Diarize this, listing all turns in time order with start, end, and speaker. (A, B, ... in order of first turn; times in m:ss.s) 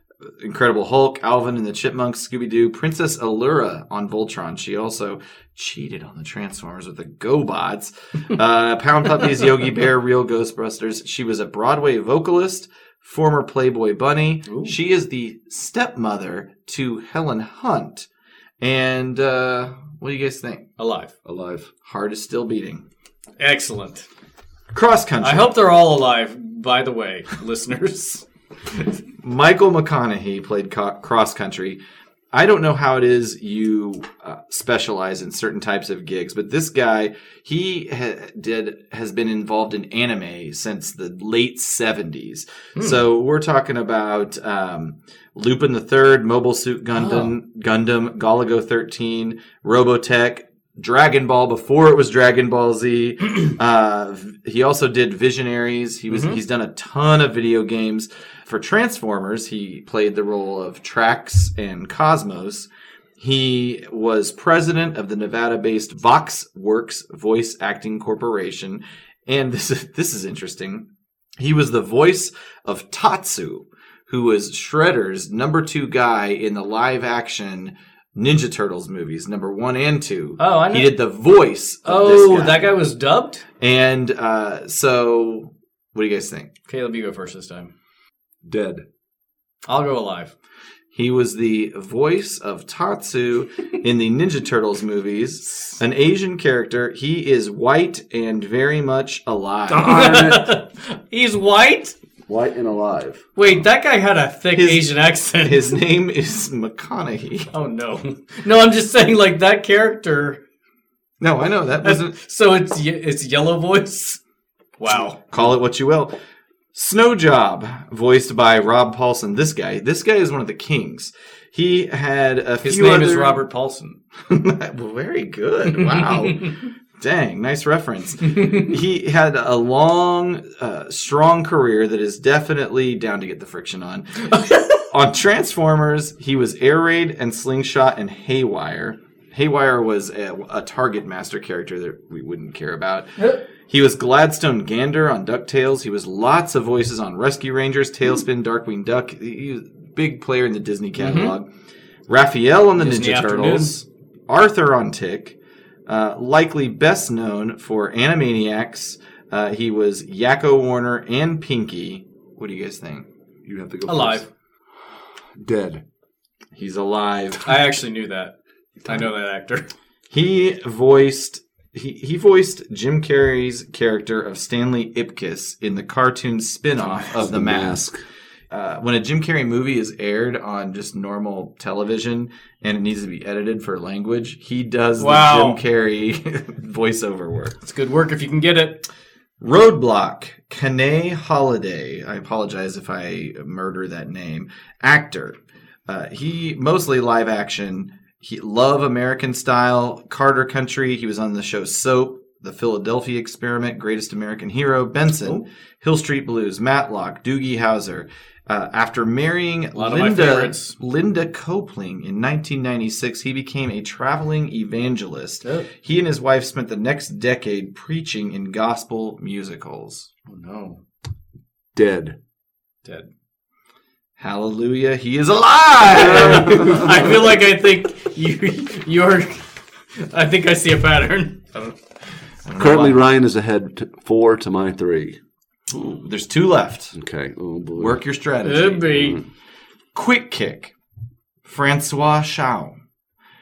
0:00.4-0:18.1 A
0:14.5-0:14.7 B
0:18.6-0:20.7 A
0:20.8-0:21.1 B
0:21.2-0:21.7 C
0:21.8-0:22.8 A
0:23.4-0:24.0 B
0:24.7-0:25.6 A
0:25.2-0:28.2 B
0:29.2-0:31.8 A
0:32.3-1:10.8 A
0:46.9-0:47.3 B
0:56.1-0:56.4 B
1:11.4-1:22.8 A
1:20.4-1:20.9 B
1:21.8-1:23.4 B
1:23.6-1:26.5 A
1:26.7-1:27.7 B
1:28.4-1:28.8 C
1:29.7-1:30.3 B
1:30.9-1:40.0 A
1:39.7-1:40.5 C
1:39.7-1:41.9 B
1:42.3-1:43.2 C
1:43.4-1:45.8 B
1:44.5-1:47.5 A
1:47.5-1:50.4 B
1:51.2-1:52.1 A
1:51.8-1:54.2 B
1:54.8-1:55.2 B
1:54.9-1:56.1 A
1:56.7-2:03.4 A
2:02.6-2:04.0 B
2:04.3-2:31.5 A
2:05.7-2:06.5 B
2:08.2-2:08.7 B
2:14.3-2:14.8 B
2:31.0-2:31.3 B
2:32.1-2:35.4 A
2:32.8-2:33.7 B
2:35.9-2:43.1 A
2:43.4-2:44.2 C
2:43.8-2:44.3 B
2:45.4-2:45.8 C
2:46.5-2:47.6 A
2:47.4-2:49.7 B
2:50.1-2:57.8 A
2:57.1-2:58.0 C
2:58.5-3:07.6 A
3:05.0-3:05.6 B
3:07.6-3:08.8 B
3:09.4-3:15.4 A
3:15.9-3:40.1 A
3:29.7-3:30.7 B
3:40.3-3:40.8 B
3:41.7-3:42.2 C
3:44.2-3:47.1 A
3:45.9-3:46.9 C
3:45.9-3:51.5 B
3:52.4-3:53.0 A
3:52.6-3:55.2 C
3:55.7-3:56.9 A
3:56.9-3:58.0 C
3:57.8-3:59.1 A
3:58.4-3:59.2 B
3:58.9-3:59.2 C
3:59.9-4:00.7 A
4:01.4-4:02.8 A